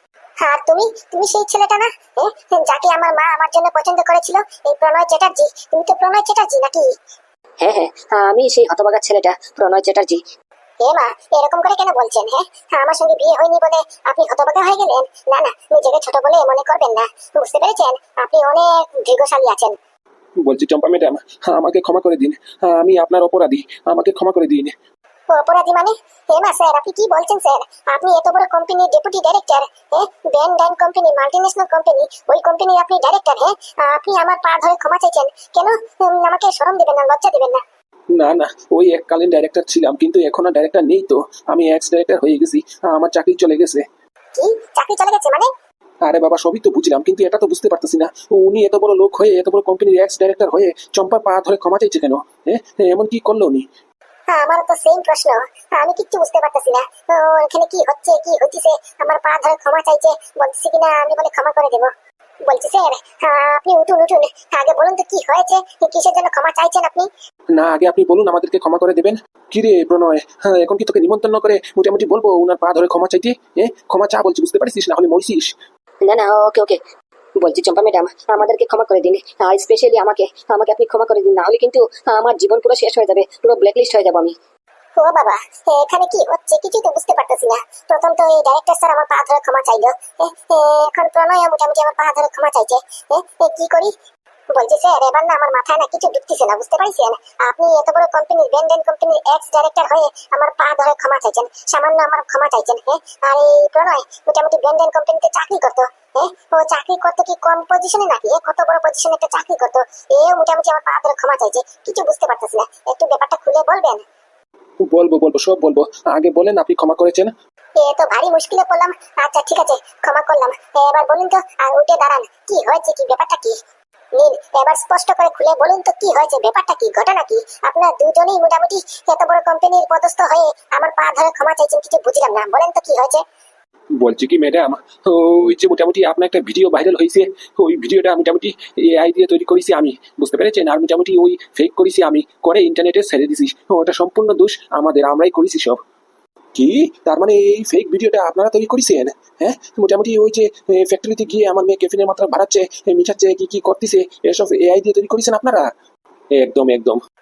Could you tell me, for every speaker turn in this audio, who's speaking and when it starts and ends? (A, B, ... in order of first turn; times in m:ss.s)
0:00.4-0:06.9 A
0:07.6-0:10.2 B
0:10.8-0:19.8 A
0:20.4-0:24.7 C
0:25.3-0:37.6 A
0:38.2-0:43.9 C
0:44.4-0:45.5 A
0:46.0-0:53.6 C
0:54.3-1:01.9 A
1:02.5-1:07.1 A
1:07.6-1:15.5 C
1:16.0-1:16.8 B
1:17.4-1:24.4 B
1:25.0-1:33.9 A
1:34.5-1:54.0 A
1:54.8-1:57.3 C
1:57.8-2:03.6 A
2:04.2-2:13.2 A
2:14.0-2:25.8 C
2:26.6-2:35.7 C
2:36.4-2:37.0 C